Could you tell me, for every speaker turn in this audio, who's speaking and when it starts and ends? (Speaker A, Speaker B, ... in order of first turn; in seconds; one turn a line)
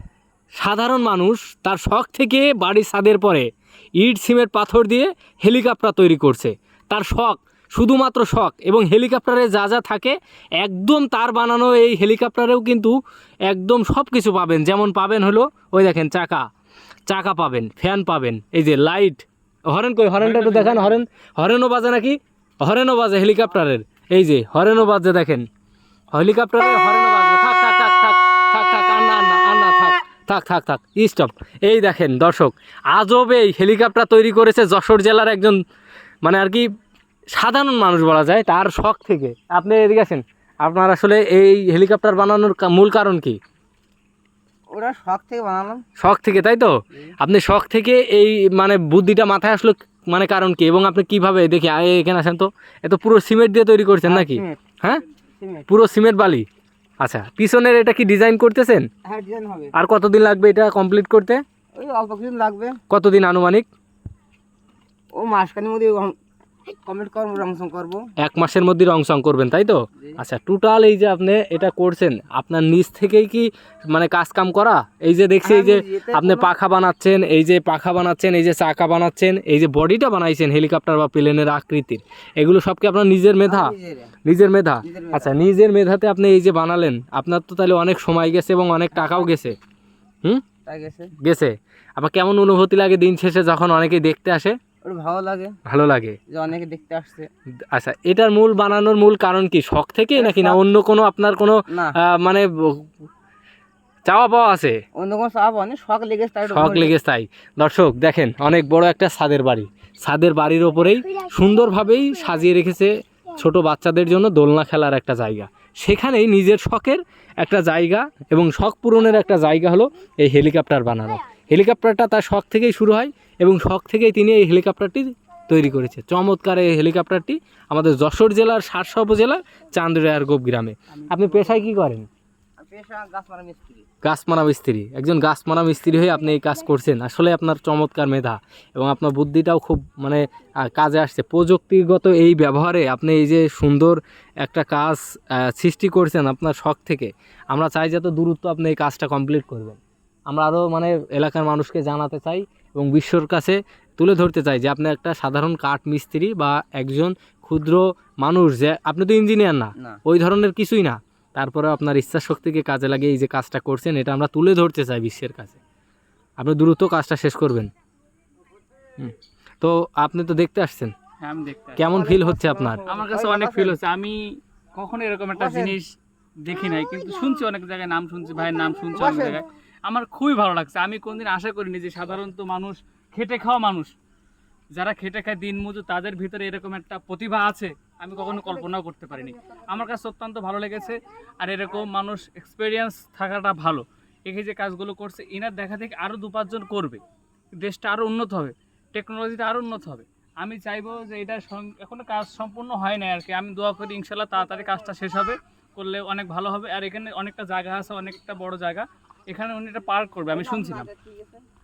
Speaker A: 0.6-3.5
Speaker A: 4.0-12.9
Speaker A: 13.5-16.4
Speaker A: 17.1-25.4
Speaker B: 20.2-21.0
Speaker A: 26.1-35.6
Speaker A: 36.2-36.6
Speaker A: 37.3-43.4
Speaker C: 44.7-45.8
Speaker A: 46.0-55.0
Speaker C: 54.0-54.6
Speaker C: 55.4-55.7
Speaker A: 55.7-56.4
Speaker A: 57.0-58.9
Speaker C: 59.0-59.7
Speaker A: 59.7-61.4
Speaker C: 61.7-62.8
Speaker A: 62.9-63.7
Speaker C: 65.2-66.1
Speaker C: 66.8-68.0
Speaker A: 68.2-83.7
Speaker C: 75.4-76.5
Speaker C: 83.5-84.1
Speaker A: 84.2-89.5
Speaker C: 84.8-85.4
Speaker C: 88.9-89.3
Speaker C: 90.7-91.1
Speaker A: 91.2-94.5
Speaker C: 94.8-95.5
Speaker A: 95.7-96.2
Speaker C: 96.3-97.3
Speaker A: 97.7-102.9
Speaker C: 100.2-100.6
Speaker C: 101.7-102.0
Speaker A: 104.0-104.8
Speaker C: 105.0-106.9
Speaker A: 106.5-132.1
Speaker B: 130.9-131.6
Speaker C: 132.6-133.8
Speaker A: 134.0-165.6
Speaker A: 166.4-167.7
Speaker A: 169.0-170.9
Speaker B: 171.2-171.8
Speaker A: 171.8-172.8
Speaker C: 171.8-173.8
Speaker B: 172.9-183.9
Speaker C: 175.3-175.8
Speaker C: 178.9-179.4
Speaker B: 184.7-197.0
Speaker B: 197.6-210.9
Speaker C: 210.3-211.4